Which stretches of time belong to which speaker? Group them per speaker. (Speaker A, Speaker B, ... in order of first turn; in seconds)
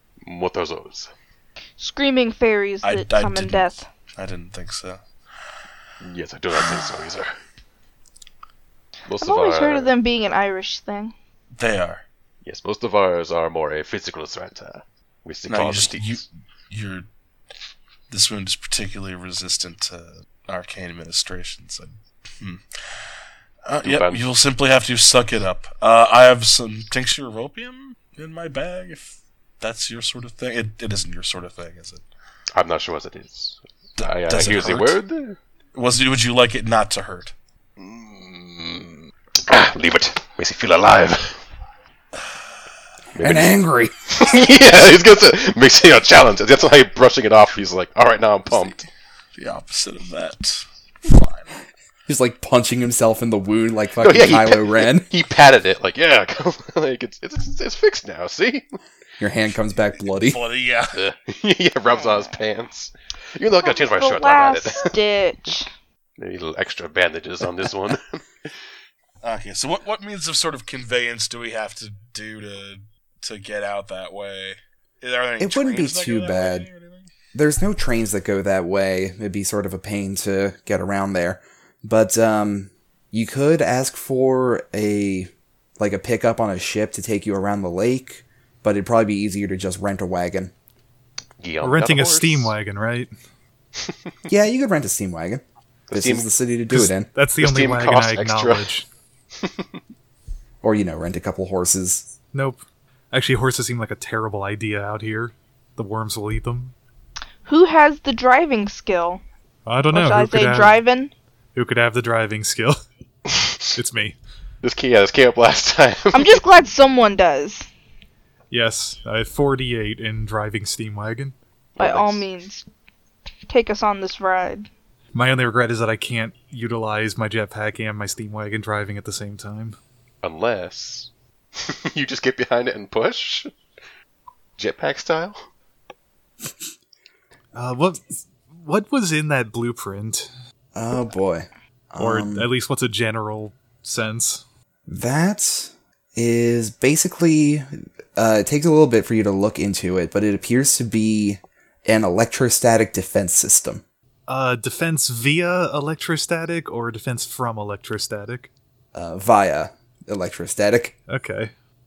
Speaker A: 0.2-1.1, 6.0-7.3, 9.1-9.9, 12.4-16.2, 23.8-24.2, 32.5-35.4, 37.8-41.4, 43.1-43.6, 44.1-48.9, 54.0-58.8, 60.9-64.9, 66.2-68.5, 91.4-92.5, 95.9-96.3, 97.4-98.7, 99.4-99.8, 113.3-113.7, 114.6-116.4, 121.8-122.2, 130.2-133.5, 134.6-135.4
Speaker B: 1.8-3.9, 9.2-11.1, 61.9-62.3, 63.6-65.7, 107.5-109.2, 109.9-111.1, 116.1-117.7, 121.8-122.7, 123.5-124.7
Speaker C: 2.8-5.0, 11.6-12.0, 15.5-17.1, 18.1-22.6, 23.7-32.0, 34.0-35.0, 35.8-37.3, 49.4-51.6, 60.2-61.0, 69.2-77.1
Speaker D: 43.2-44.3, 52.1-55.1, 59.2-60.4, 75.4-76.7, 77.3-90.5, 94.3-97.1, 100.6-102.1, 140.8-142.5, 144.9-153.8, 158.9-160.9
Speaker E: 91.6-93.1, 96.7-98.9, 102.3-106.7, 109.7-110.8, 111.5-112.8, 113.8-114.2, 118.5-121.3, 125.1-129.8, 137.5-140.3, 142.0-144.4, 154.3-158.5, 161.1-161.5